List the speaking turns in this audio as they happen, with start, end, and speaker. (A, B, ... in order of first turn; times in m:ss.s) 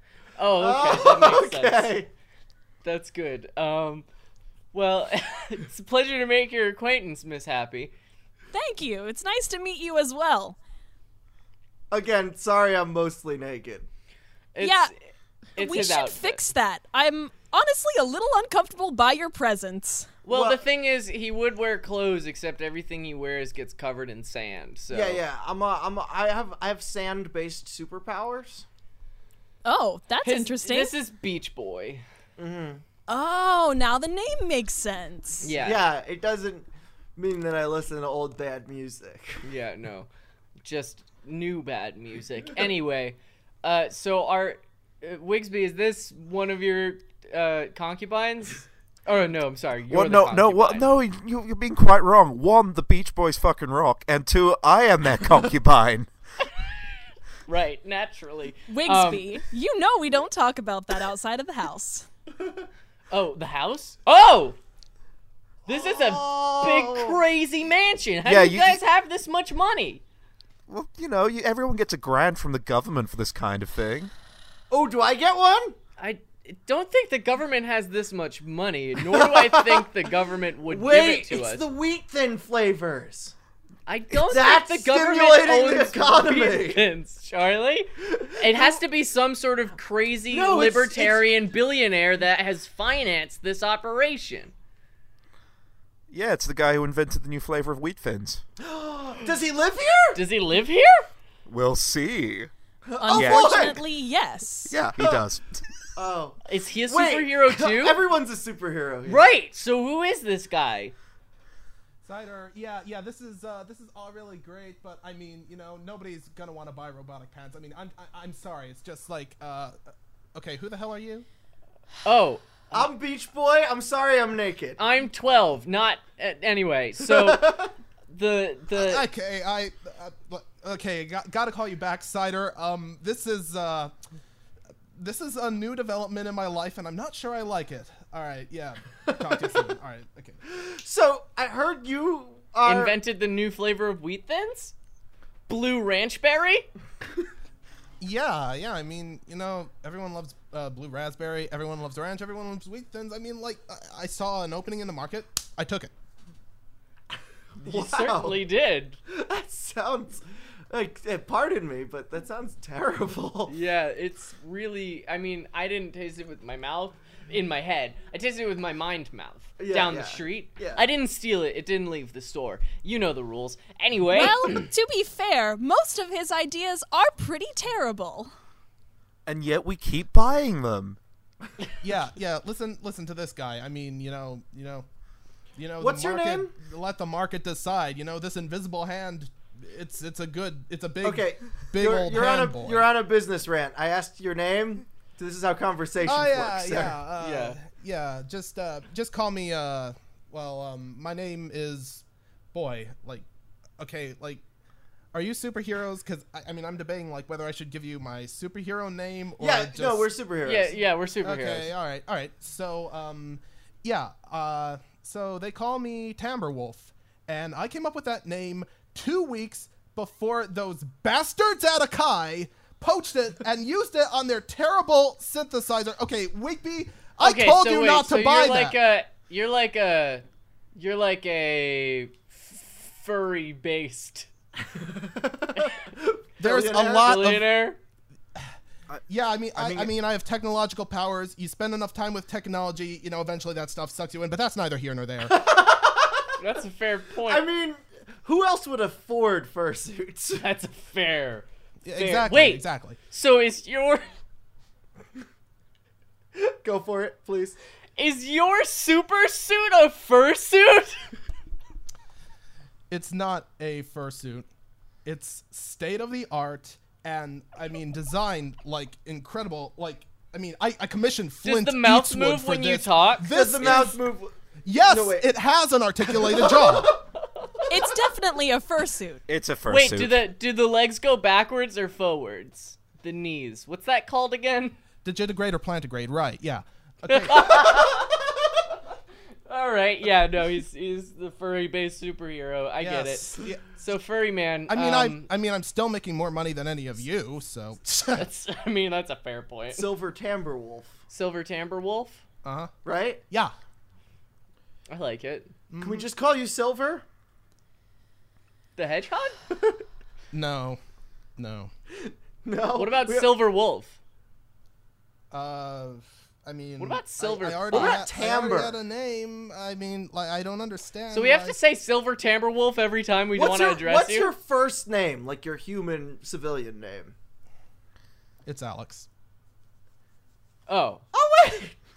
0:00.4-0:01.9 A
0:00.6-0:02.1 B
0:02.8-0:04.0 A
0:04.7-0:07.9 A
0:08.5-0:10.6 C
0:11.9-0:13.8 B
0:14.5-0:14.9 A
0:14.6-0:14.9 C
0:15.6-0:16.4 A
0:15.6-0:20.1 C
0:20.2-0:25.2 A
0:20.3-0:20.6 B
0:24.9-0:28.6 B
0:29.6-0:30.9 C
0:30.2-0:32.0 A
0:32.4-0:32.8 B
0:33.1-0:35.5 C
0:35.4-0:35.8 A
0:35.5-0:39.4 B
0:39.4-0:40.1 A
0:40.6-0:50.9 A
0:49.9-0:56.1 D
0:57.4-0:59.4 A
0:58.7-1:02.1 C
1:03.1-1:04.6 A
1:05.6-1:10.0 A
1:05.7-1:07.2 B
1:08.2-1:08.8 D
1:10.7-1:14.1 D
1:14.7-1:15.8 B
1:16.0-1:21.6 A
1:19.1-1:19.8 B
1:20.7-1:23.3 B
1:23.8-1:34.5 A
1:24.1-1:26.8 B
1:28.1-1:28.8 B
1:30.3-1:31.2 B
1:36.1-1:38.4 D
1:38.6-1:40.2 B
1:40.1-1:41.1 A
1:41.4-1:42.5 D
1:42.8-1:43.8 B
1:43.0-1:44.8 C
1:43.1-1:43.6 D
1:44.7-1:45.6 D
1:46.0-1:49.3 B
1:46.4-1:48.0 A
1:49.0-1:50.9 A
1:52.0-1:59.8 E
2:00.3-2:01.2 E
2:02.0-2:02.9 A
2:02.7-2:04.8 B
2:04.8-2:09.0 A
2:07.1-2:07.7 B
2:08.7-2:13.9 E
2:14.9-2:20.4 E
2:19.0-2:19.7 B
2:20.5-2:23.0 B
2:22.6-2:24.7 A
2:25.5-2:26.7 A
2:28.0-2:35.9 E
2:37.6-2:38.4 B
2:37.6-2:39.0 A
2:39.1-2:43.5 B
2:43.5-2:54.7 A
2:49.6-2:50.8 B
2:54.1-2:58.3 C
2:59.2-3:01.0 D
3:01.8-3:04.8 E
3:05.6-3:12.9 E
3:05.8-3:06.5 B
3:11.0-3:17.0 B
3:16.0-3:23.2 E
3:17.2-3:17.6 A
3:23.8-3:24.4 E
3:25.1-3:30.1 E
3:29.4-3:30.7 B
3:30.4-3:31.7 A
3:31.2-3:48.8 E
3:47.2-3:50.2 A
3:50.7-3:54.3 A
3:54.7-3:57.1 B
3:56.4-3:57.4 E
3:56.8-3:57.8 A
3:59.1-4:05.4 E
3:59.6-3:59.9 B
4:05.2-4:06.3 B
4:06.4-4:07.4 A
4:07.3-4:10.4 B
4:10.4-4:14.0 A
4:11.8-4:13.0 E
4:16.4-4:17.6 B
4:18.0-4:21.0 A
4:22.9-4:24.4 E
4:25.0-4:34.0 E
4:31.4-4:33.8 A
4:33.3-4:35.3 B
4:34.6-4:37.0 E
4:36.2-4:37.0 B
4:37.7-4:39.2 C
4:39.3-4:40.2 D
4:39.7-4:44.8 A
4:45.0-4:47.8 E
4:47.1-4:48.0 A
4:49.5-4:55.3 A
4:52.8-4:53.6 E
4:54.7-4:58.2 E
4:58.1-4:59.9 A
4:59.7-5:00.9 B
5:01.1-5:02.2 A
5:02.4-5:02.7 E
5:02.8-5:03.2 B
5:04.9-5:05.5 A
5:05.7-5:06.1 E
5:05.8-5:07.0 B
5:08.8-5:09.4 A
5:10.3-5:10.8 E
5:11.4-5:11.7 E
5:12.0-5:13.3 B
5:12.8-5:14.0 A
5:15.3-5:21.6 E
5:16.8-5:18.0 A
5:17.7-5:18.8 B
5:21.1-5:24.3 A
5:23.3-5:27.1 B
5:28.4-5:29.1 E
5:30.7-5:31.0 A
5:31.1-5:31.7 B